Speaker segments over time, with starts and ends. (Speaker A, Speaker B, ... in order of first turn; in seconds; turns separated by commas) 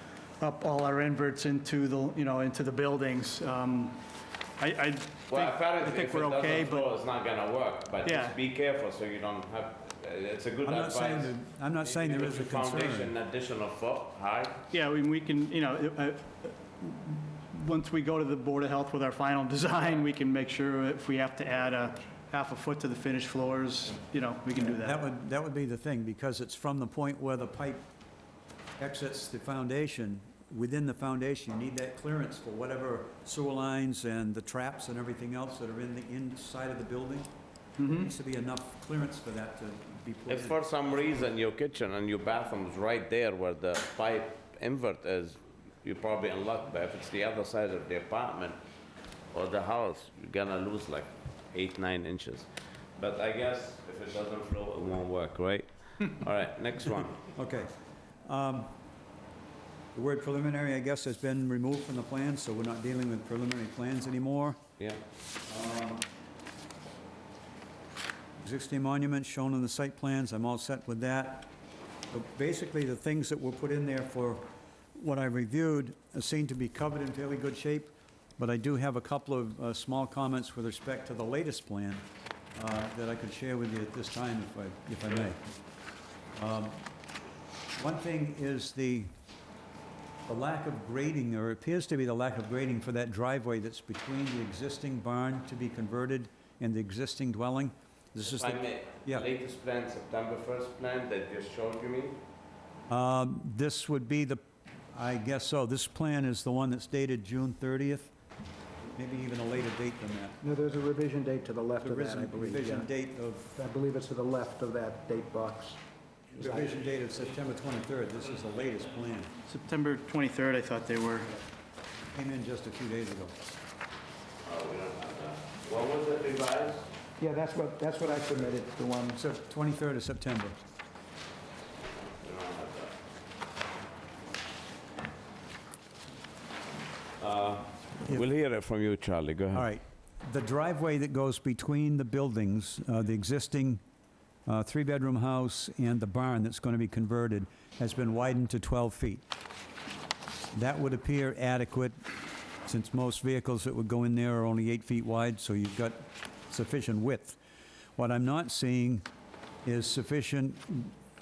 Speaker A: 0.4-4.0, Speaker A: 4.6-6.9, Speaker B: 5.3-14.6, Speaker A: 8.0-8.3, Speaker C: 10.6-13.1, Speaker A: 14.7-25.0, Speaker C: 24.6-27.8, Speaker C: 28.8-37.3, Speaker A: 37.8-38.1, Speaker C: 37.8-40.6, Speaker B: 40.3-48.6, Speaker B: 49.3-57.2, Speaker C: 57.3-57.7, Speaker C: 58.2-58.7, Speaker C: 59.9-64.6, Speaker C: 65.4-66.0, Speaker C: 68.4-71.5, Speaker C: 72.1-85.4, Speaker C: 86.4-86.9, Speaker C: 87.8-89.1, Speaker C: 90.3-99.2, Speaker B: 98.2-102.2, Speaker C: 102.9-108.1, Speaker C: 109.0-110.4, Speaker D: 110.4-112.9, Speaker C: 111.8-113.5, Speaker D: 113.5-115.8, Speaker D: 116.4-116.7, Speaker C: 116.4-119.3, Speaker A: 119.5-121.4, Speaker C: 122.1-123.3, Speaker B: 124.4-126.9, Speaker D: 127.2-129.2, Speaker C: 128.1-128.3, Speaker C: 129.1-130.5, Speaker B: 132.0-132.9, Speaker B: 137.2-139.7, Speaker C: 139.5-143.8, Speaker C: 144.4-149.2, Speaker C: 150.5-151.9, Speaker C: 152.6-157.4, Speaker C: 158.0-159.0, Speaker C: 159.6-160.9